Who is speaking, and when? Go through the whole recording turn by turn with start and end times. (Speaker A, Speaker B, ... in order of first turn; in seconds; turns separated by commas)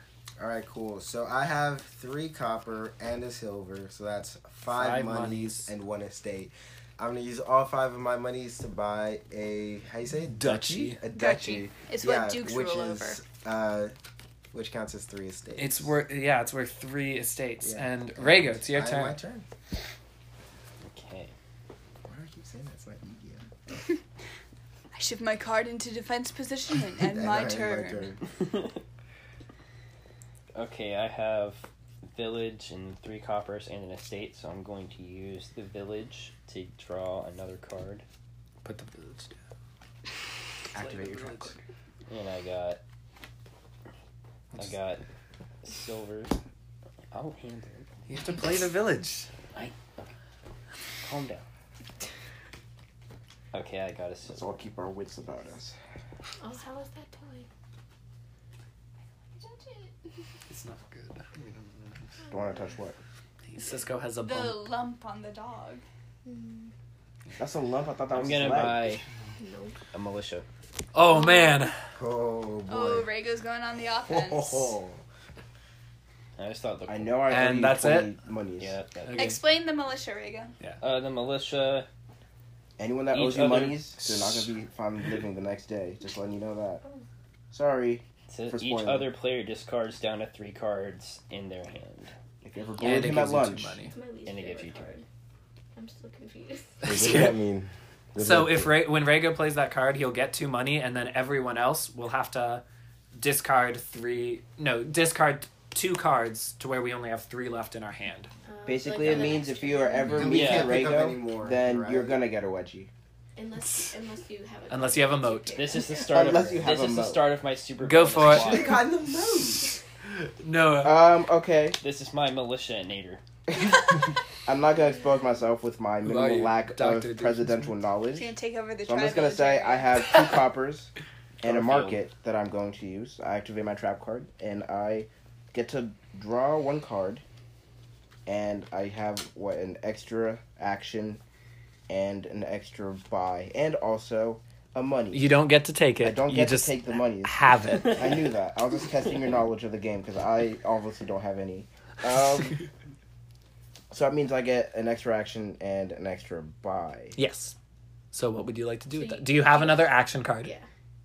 Speaker A: 0.4-13.9, Speaker B: 4.7-5.7, Speaker B: 10.3-11.0, Speaker C: 11.1-13.2, Speaker A: 14.5-15.9, Speaker B: 15.6-19.2, Speaker A: 17.6-19.5, Speaker D: 20.8-21.3, Speaker A: 22.1-23.5, Speaker C: 24.9-28.1, Speaker A: 27.0-28.2, Speaker D: 30.6-38.0, Speaker B: 38.6-39.4, Speaker B: 40.7-41.6, Speaker A: 40.8-41.4, Speaker D: 42.1-42.8, Speaker D: 44.6-45.0, Speaker D: 45.6-46.4, Speaker D: 47.1-48.0, Speaker B: 48.1-49.3, Speaker D: 49.5-50.1, Speaker D: 51.0-51.5, Speaker D: 53.5-54.5, Speaker E: 54.3-55.8, Speaker F: 56.4-57.5, Speaker C: 59.3-59.9, Speaker B: 60.5-62.0, Speaker F: 62.3-62.7, Speaker E: 62.3-63.0, Speaker B: 63.5-64.7, Speaker C: 64.1-65.8, Speaker F: 66.2-66.7, Speaker E: 67.4-69.0, Speaker D: 68.1-69.0, Speaker F: 69.4-69.8, Speaker D: 69.9-70.5, Speaker B: 70.9-71.7, Speaker A: 72.0-73.1, Speaker C: 72.7-74.8, Speaker A: 74.3-75.0, Speaker D: 76.4-77.4, Speaker E: 76.9-78.8, Speaker B: 77.3-78.1, Speaker D: 78.6-79.3, Speaker B: 79.0-79.4, Speaker C: 79.2-80.5, Speaker D: 80.8-81.9, Speaker E: 82.8-86.8, Speaker D: 83.1-83.9, Speaker B: 84.0-84.5, Speaker E: 87.5-89.1, Speaker D: 88.3-92.1, Speaker E: 92.4-93.8, Speaker B: 92.8-93.9, Speaker F: 93.8-95.0, Speaker D: 94.3-95.0, Speaker F: 95.8-96.9, Speaker B: 96.8-97.3, Speaker A: 96.8-98.8, Speaker B: 98.2-102.6, Speaker B: 103.2-108.3, Speaker F: 108.5-110.5, Speaker E: 108.7-112.9, Speaker A: 110.1-112.2, Speaker D: 110.2-110.8, Speaker F: 113.4-116.1, Speaker B: 113.7-113.9, Speaker B: 114.7-115.7, Speaker D: 115.5-118.8, Speaker E: 116.1-117.2, Speaker A: 116.1-116.9, Speaker B: 117.8-118.8, Speaker A: 118.2-119.7, Speaker B: 120.1-121.2, Speaker E: 120.8-121.8, Speaker D: 121.8-123.2, Speaker E: 123.5-130.9, Speaker B: 126.0-127.8, Speaker C: 128.2-130.2, Speaker E: 131.4-137.2, Speaker D: 131.4-132.0, Speaker E: 138.3-141.2, Speaker E: 141.9-145.4, Speaker B: 145.1-148.1, Speaker E: 146.0-152.6, Speaker E: 153.9-157.2, Speaker B: 157.2-157.5, Speaker B: 158.1-160.5, Speaker F: 158.9-160.7